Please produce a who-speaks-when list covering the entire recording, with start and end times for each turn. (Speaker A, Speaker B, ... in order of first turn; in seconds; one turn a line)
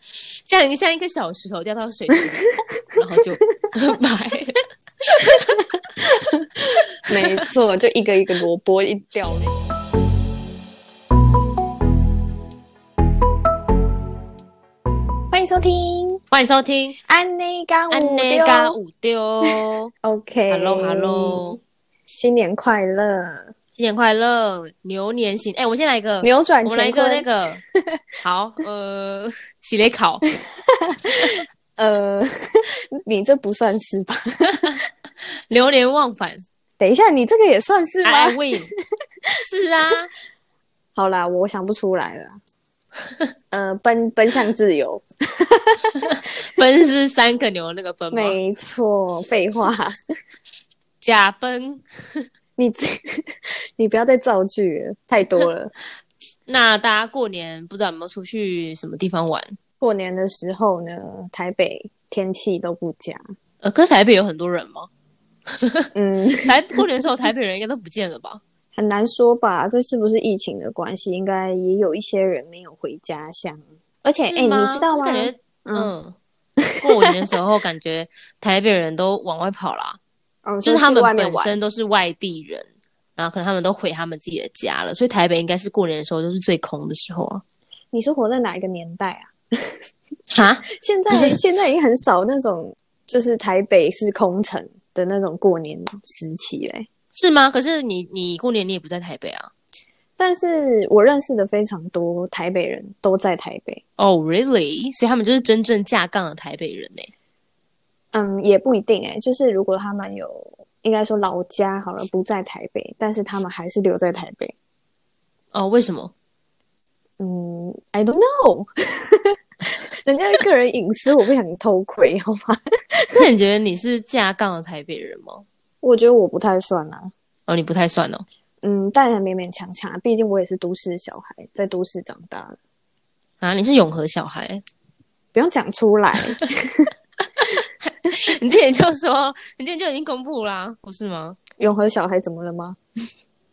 Speaker A: 0.5-5.7
Speaker B: 6.0-9.5
Speaker A: 7.1-7.4
Speaker B: 15.3-16.2
Speaker A: 16.3-17.0
Speaker B: 17.1-18.8
Speaker A: 17.9-19.9
Speaker B: 20.0-21.5
Speaker A: 20.5-21.6
Speaker B: 22.1-23.5
Speaker A: 23.8-27.6
Speaker B: 26.2-28.0
Speaker A: 28.2-30.2
Speaker B: 30.4-34.7
Speaker A: 35.5-36.4
Speaker B: 36.8-38.7
Speaker A: 38.0-38.7
Speaker A: 39.4-40.1
Speaker B: 40.9-42.4
Speaker B: 43.5-46.1
Speaker A: 46.0-48.4
Speaker B: 48.1-50.0
Speaker A: 51.0-52.2
Speaker B: 52.6-55.7
Speaker A: 56.5-59.5
Speaker B: 59.8-63.2
Speaker A: 63.6-64.9
Speaker A: 65.5-65.9
Speaker B: 65.9-66.5
Speaker A: 66.4-68.4
Speaker B: 68.7-75.9
Speaker A: 74.2-76.2
Speaker B: 76.6-77.1
Speaker A: 76.8-80.0
Speaker B: 80.4-81.6
Speaker A: 80.6-87.4
Speaker B: 87.9-89.8
Speaker A: 90.3-91.4
Speaker B: 90.7-96.9
Speaker A: 97.1-99.5
Speaker B: 100.2-103.8
Speaker A: 104.0-107.1
Speaker B: 108.1-114.5
Speaker A: 115.5-116.1
Speaker B: 117.2-123.2
Speaker A: 123.1-125.4
Speaker B: 125.8-127.1
Speaker A: 127.5-128.2
Speaker B: 128.6-132.6
Speaker A: 133.4-134.6
Speaker B: 135.3-136.9
Speaker A: 137.4-141.4
Speaker B: 141.6-142.8